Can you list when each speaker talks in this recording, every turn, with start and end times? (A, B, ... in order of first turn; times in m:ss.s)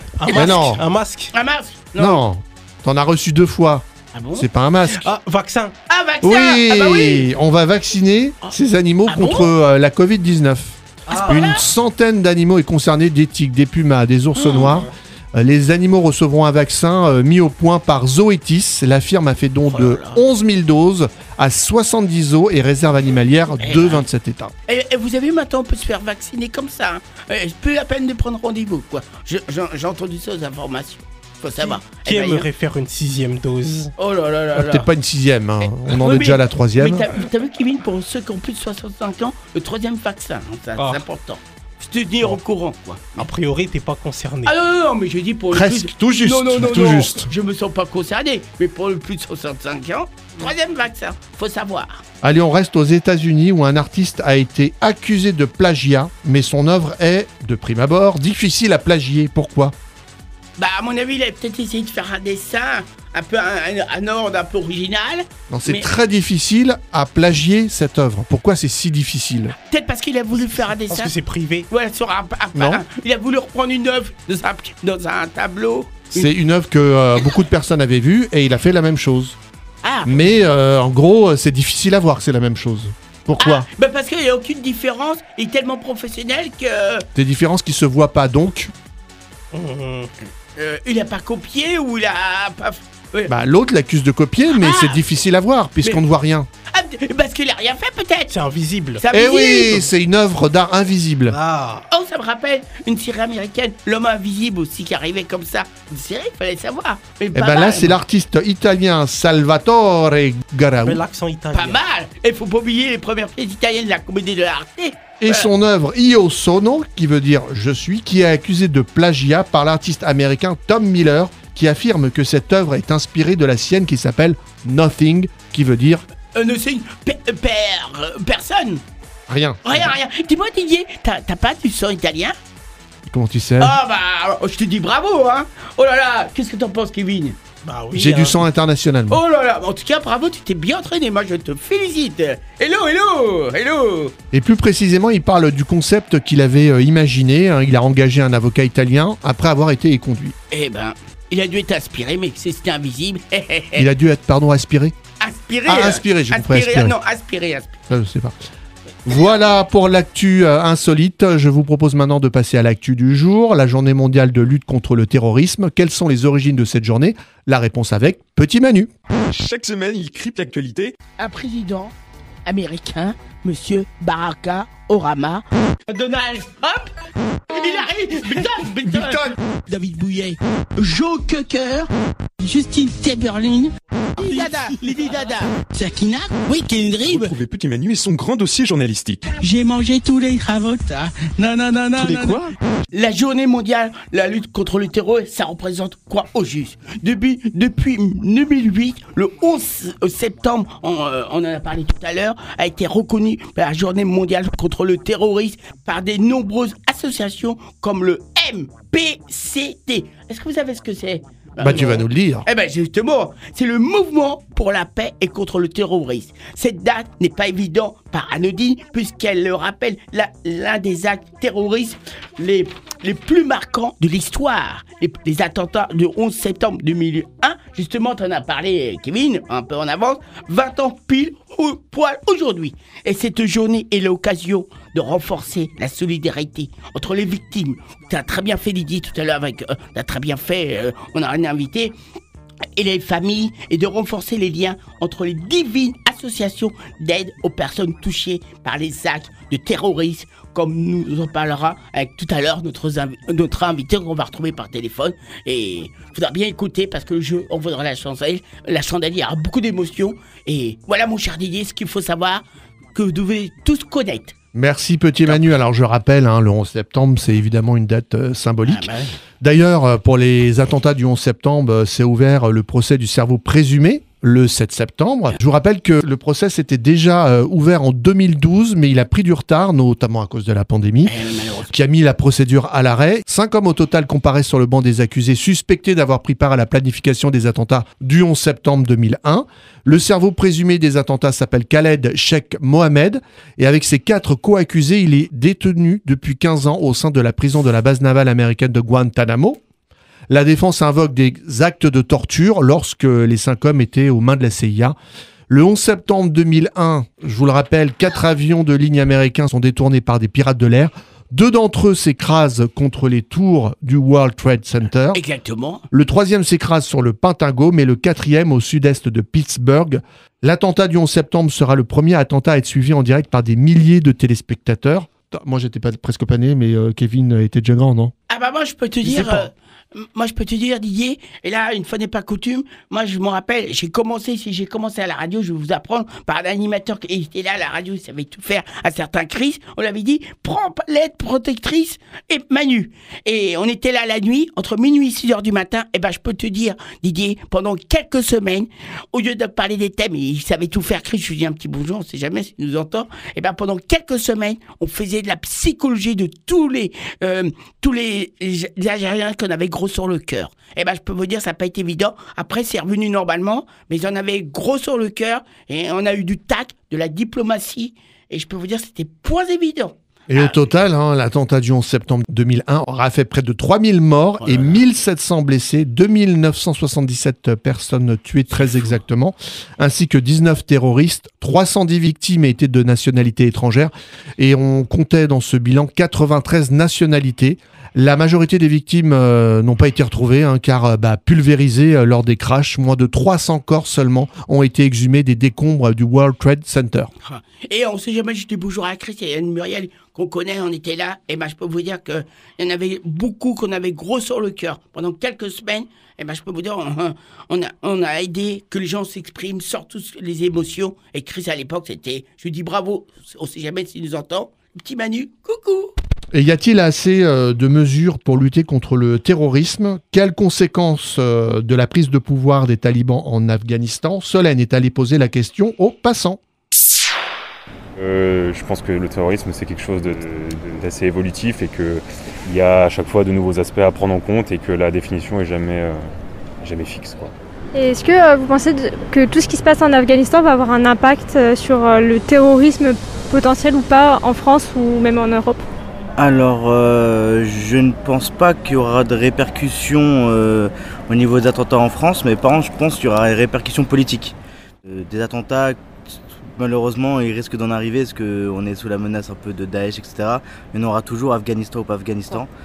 0:00.2-0:01.3 A
0:00.2-0:00.8 B
0:00.3-0:00.8 C
0:01.3-0:02.2 B
0:02.0-0:05.1 C
0:04.1-0:04.4 B
0:05.0-0:05.7 A
0:05.9-0:07.2 B
0:06.2-0:24.5 C
0:09.1-0:09.5 B
0:11.1-0:11.6 A
0:11.1-0:11.7 B
0:14.4-0:14.8 B
0:19.7-0:20.2 B
0:23.6-0:24.0 B
0:24.7-0:32.5 B
0:31.6-0:33.9 A
0:34.0-0:34.9 B
0:34.5-0:37.1 C
0:35.8-0:43.3 B
0:40.8-0:41.0 A
0:43.1-0:44.5 A
0:44.4-0:52.0 B
0:45.5-0:47.3 C
0:52.2-0:59.7 C
1:00.6-1:05.9 B
1:05.5-1:09.5 C
1:09.6-1:11.1 B
1:10.4-1:11.6 A
1:11.7-1:16.3 B
1:12.5-1:12.8 C
1:16.1-1:19.4 C
1:19.8-1:20.3 B
1:20.0-1:23.6 C
1:23.4-1:27.1 B
1:27.1-1:28.7 C
1:29.5-1:30.1 A
1:30.6-1:33.3 B
1:33.3-1:36.5 C
1:34.5-1:35.0 B
1:36.7-1:38.3 B
1:38.3-1:39.0 A
1:39.0-1:39.8 B
1:39.1-1:41.4 C
1:41.3-1:41.8 A
1:41.9-1:47.9 B
1:47.3-1:51.0 C
1:50.8-1:51.8 A
1:51.5-1:55.5 B
1:55.2-2:06.0 C
2:06.3-2:08.8 B
2:09.3-2:09.9 C
2:09.6-2:12.3 B
2:13.0-2:13.8 C
2:13.6-2:17.4 B
2:17.6-2:18.4 A
2:17.9-2:19.2 C
2:19.1-2:24.1 B
2:24.3-2:30.3 C
2:30.5-2:33.8 B
2:33.8-2:34.9 C
2:35.2-2:37.8 B
2:35.6-2:37.0 C
2:37.9-2:38.4 C
2:39.0-2:48.9 C
2:49.3-2:50.9 D
2:51.2-2:51.9 B
2:52.4-2:56.9 B
2:57.5-3:07.3 B
2:58.9-2:59.3 C
3:07.0-3:09.3 D
3:09.4-4:01.9 B
3:12.0-3:12.4 D
3:31.6-3:32.4 C
4:02.8-4:24.3 B
4:24.5-4:28.9 C
4:28.6-4:29.2 B
4:29.4-4:41.2 C
4:41.0-4:41.7 B
4:41.7-4:59.6 C
5:00.3-5:05.0 C
5:05.5-5:15.2 C
5:15.1-5:15.8 B
5:15.9-5:28.1 C
5:28.3-6:10.6 B
5:29.0-5:29.5 C
6:10.3-6:37.1 C
6:14.4-6:14.8 B
6:37.2-6:55.9 B
6:56.3-7:06.4 C
7:08.0-7:16.1 E
7:16.6-7:17.3 E
7:17.7-7:25.6 F
7:26.2-7:34.3 G
7:34.8-7:35.8 G
7:36.4-7:42.5 G